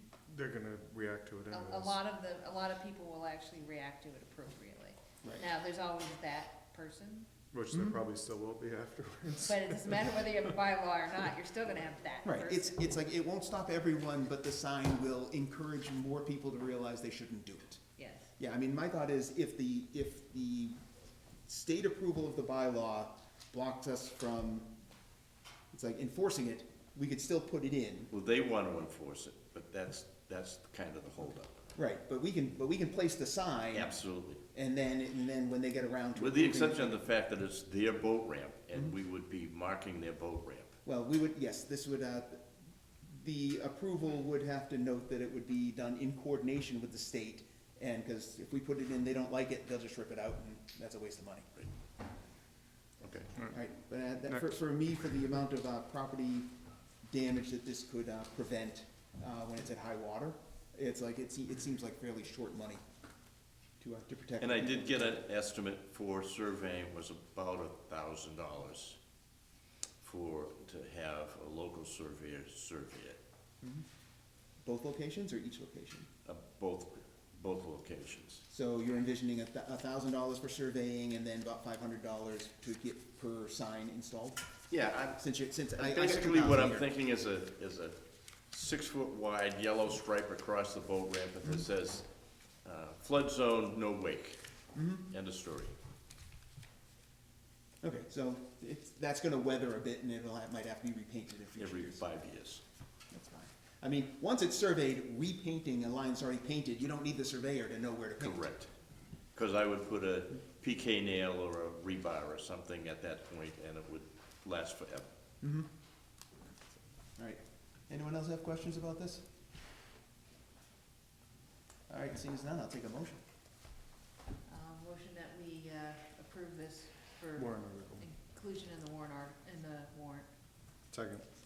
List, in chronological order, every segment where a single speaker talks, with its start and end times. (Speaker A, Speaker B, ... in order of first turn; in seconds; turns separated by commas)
Speaker A: 0.3-2.0, Speaker B: 1.5-7.3, Speaker A: 7.5-10.1, Speaker C: 7.7-8.0, Speaker B: 9.4-12.9, Speaker C: 12.2-17.8, Speaker B: 18.0-18.3, Speaker C: 18.4-20.8, Speaker C: 21.5-24.7, Speaker C: 25.7-28.1, Speaker D: 28.1-31.5, Speaker C: 31.7-37.0, Speaker D: 33.7-34.4, Speaker D: 36.2-40.8, Speaker C: 40.8-42.4, Speaker C: 43.1-51.5, Speaker D: 53.0-53.5, Speaker C: 53.5-56.5, Speaker C: 57.1-62.8, Speaker C: 63.8-65.2, Speaker D: 64.4-69.0, Speaker D: 70.0-73.2, Speaker C: 74.6-76.1, Speaker D: 76.2-78.4, Speaker C: 78.5-84.5, Speaker D: 84.7-85.2, Speaker C: 85.2-86.8, Speaker D: 85.8-88.0, Speaker D: 88.5-92.1, Speaker D: 92.6-94.4, Speaker C: 94.7-95.1, Speaker D: 95.1-95.7, Speaker C: 97.8-102.0, Speaker D: 101.6-102.6, Speaker C: 103.1-108.4, Speaker D: 108.2-108.7, Speaker D: 109.3-115.1, Speaker C: 115.4-115.7, Speaker C: 117.2-119.2, Speaker C: 121.9-123.2, Speaker B: 124.5-130.3, Speaker A: 127.3-128.1, Speaker A: 130.9-131.2